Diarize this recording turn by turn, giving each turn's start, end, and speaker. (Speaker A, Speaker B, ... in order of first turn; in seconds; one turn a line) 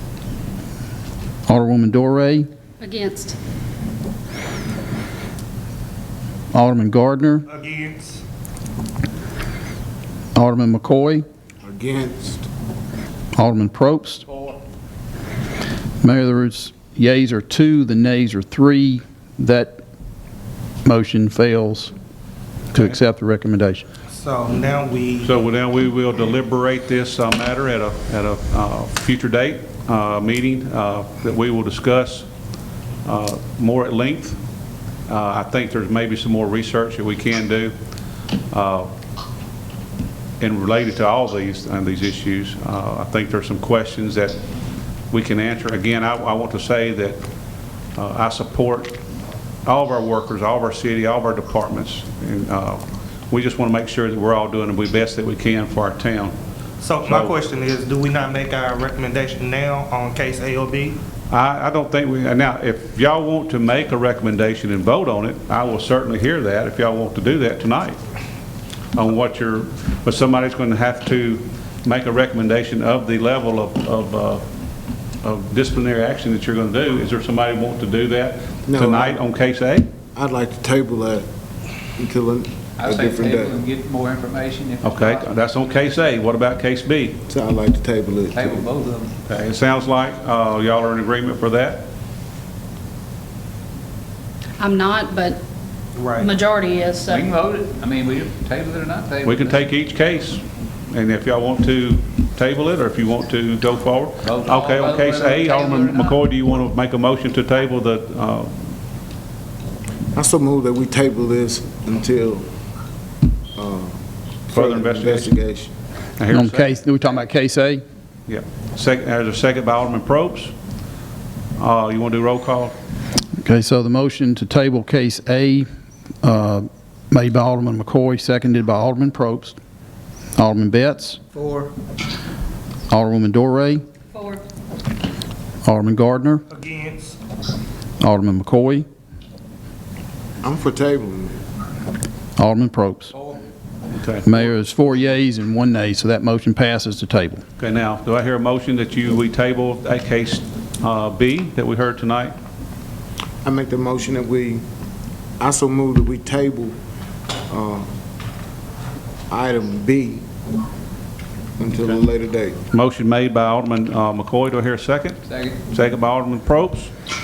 Speaker A: 1.5-2.5
Speaker B: 2.8-3.2
Speaker A: 6.5-7.5
Speaker C: 7.5-8.2
Speaker A: 10.3-11.2
Speaker D: 11.6-12.4
Speaker A: 13.3-14.3
Speaker A: 16.0-19.8
Speaker A: 20.9-21.9
Speaker A: 22.7-23.9
Speaker C: 24.1-25.3
Speaker E: 25.2-32.3
Speaker E: 33.0-34.4
Speaker E: 35.1-37.8
Speaker E: 38.5-38.9
Speaker E: 40.4-44.4
Speaker E: 45.1-47.2
Speaker E: 48.0-49.0
Speaker E: 49.6-56.4
Speaker C: 56.8-61.0
Speaker E: 57.0-57.4
Speaker E: 61.3-68.0
Speaker E: 69.0-74.5
Speaker E: 75.2-79.9
Speaker D: 78.7-79.2
Speaker D: 80.1-81.3
Speaker D: 82.0-83.6
Speaker F: 82.8-85.3
Speaker E: 84.8-87.2
Speaker D: 87.3-88.7
Speaker F: 88.3-89.2
Speaker E: 89.3-91.9
Speaker B: 94.6-95.4
Speaker C: 96.0-96.3
Speaker B: 96.2-97.3
Speaker F: 97.1-99.7
Speaker E: 99.2-108.6
Speaker F: 104.2-106.3
Speaker D: 110.1-112.5
Speaker D: 113.6-115.7
Speaker E: 114.5-115.3
Speaker E: 116.2-116.8
Speaker A: 116.3-117.8
Speaker E: 118.3-120.5
Speaker E: 121.6-122.8
Speaker A: 123.4-125.7
Speaker A: 126.2-129.6
Speaker A: 130.4-131.2
Speaker A: 132.9-133.8
Speaker A: 135.6-136.4
Speaker C: 136.5-137.2
Speaker A: 138.0-138.9
Speaker D: 140.4-141.4
Speaker A: 142.4-143.2
Speaker E: 143.9-144.5
Speaker A: 144.2-147.4
Speaker E: 147.6-152.4
Speaker D: 153.4-154.6
Speaker D: 155.4-156.8
Speaker D: 157.5-157.9
Speaker D: 159.3-160.2
Speaker D: 161.6-162.6
Speaker E: 162.7-166.9
Speaker F: 165.3-165.6